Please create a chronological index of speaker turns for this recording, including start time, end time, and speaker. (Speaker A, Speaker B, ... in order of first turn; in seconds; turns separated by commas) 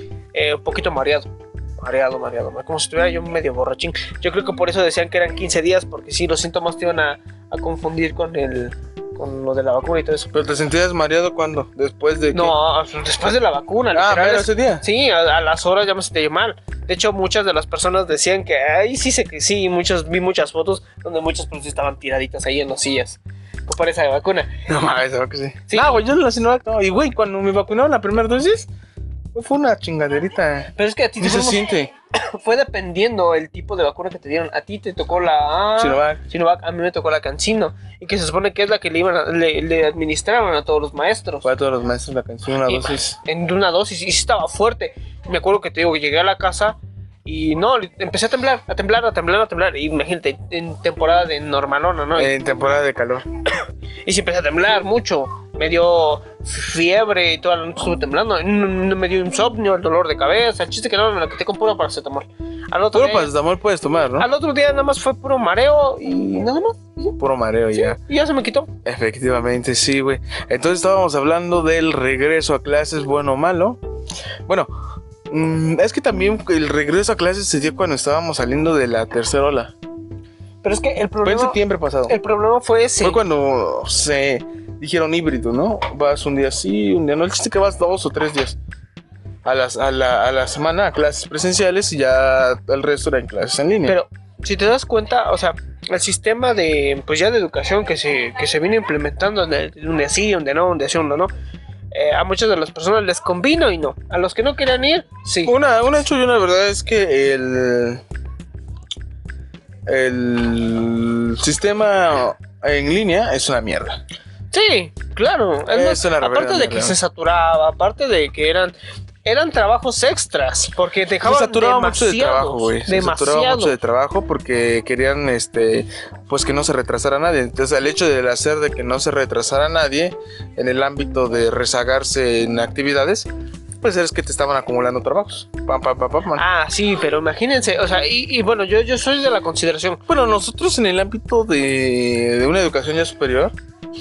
Speaker A: 0.3-10.3, Speaker B: 10.3-12.6, Speaker A: 12.3-24.6, Speaker B: 13.9-14.8, Speaker B: 24.7-28.7, Speaker A: 25.7-26.0, Speaker B: 29.3-31.9, Speaker A: 30.8-41.5, Speaker B: 35.8-36.2, Speaker B: 41.4-43.2, Speaker A: 42.7-52.4, Speaker B: 52.1-53.3, Speaker A: 54.0-63.3, Speaker B: 62.9-64.3, Speaker A: 64.2-67.2, Speaker B: 67.2-68.0, Speaker A: 67.8-68.7, Speaker B: 68.8-73.8, Speaker B: 75.3-79.7, Speaker A: 80.6-83.2, Speaker B: 81.2-82.2, Speaker B: 83.0-88.6, Speaker B: 89.5-94.0, Speaker A: 93.9-101.3, Speaker A: 101.9-105.5, Speaker B: 105.4-108.0, Speaker B: 109.9-114.0, Speaker A: 114.5-123.8, Speaker B: 115.7-117.0, Speaker B: 121.2-133.3, Speaker B: 133.8-136.4, Speaker A: 136.4-140.0, Speaker B: 140.1-143.5